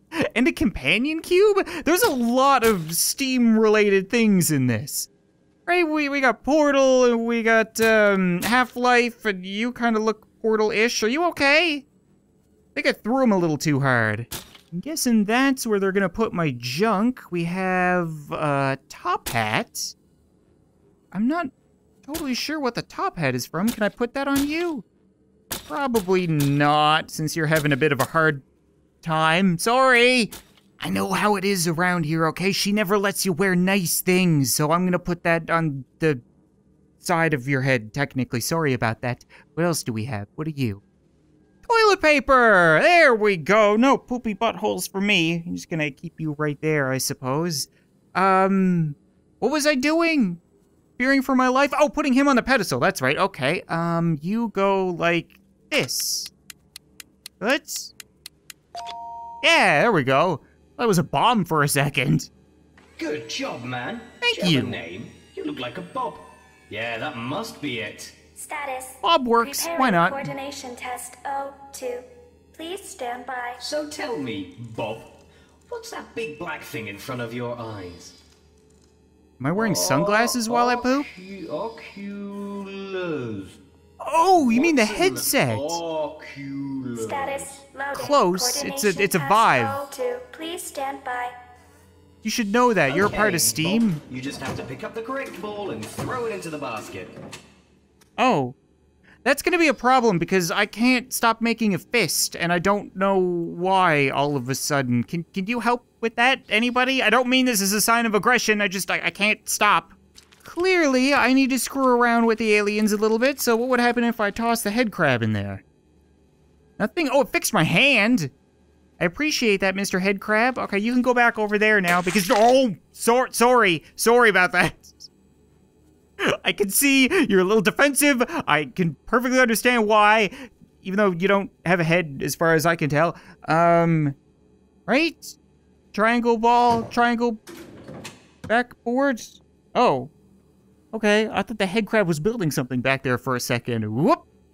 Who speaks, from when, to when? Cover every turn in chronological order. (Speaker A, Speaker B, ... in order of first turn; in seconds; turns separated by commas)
Speaker A: 0.3-5.1, Speaker A: 5.7-11.8, Speaker A: 12.7-19.9, Speaker A: 21.1-21.5, Speaker A: 22.0-24.8, Speaker A: 25.7-28.4, Speaker A: 29.0-36.2, Speaker A: 37.0-40.8, Speaker A: 41.6-50.4, Speaker A: 51.0-56.3, Speaker A: 57.4-57.9, Speaker A: 59.4-62.3, Speaker B: 63.0-68.2, Speaker A: 64.2-64.8, Speaker C: 68.3-73.6, Speaker A: 69.0-70.3, Speaker B: 73.6-75.1, Speaker B: 75.7-78.2, Speaker A: 79.4-81.1, Speaker B: 79.5-83.6, Speaker A: 84.0-85.8, Speaker B: 84.4-87.6, Speaker C: 86.9-91.3, Speaker A: 87.9-89.8, Speaker A: 92.2-94.0, Speaker B: 92.9-97.2, Speaker A: 98.2-98.5, Speaker A: 99.2-115.6, Speaker A: 116.8-118.3, Speaker A: 119.0-125.0, Speaker A: 126.2-134.2, Speaker A: 134.9-135.3, Speaker A: 135.9-137.4, Speaker A: 138.5-140.1, Speaker A: 140.9-144.2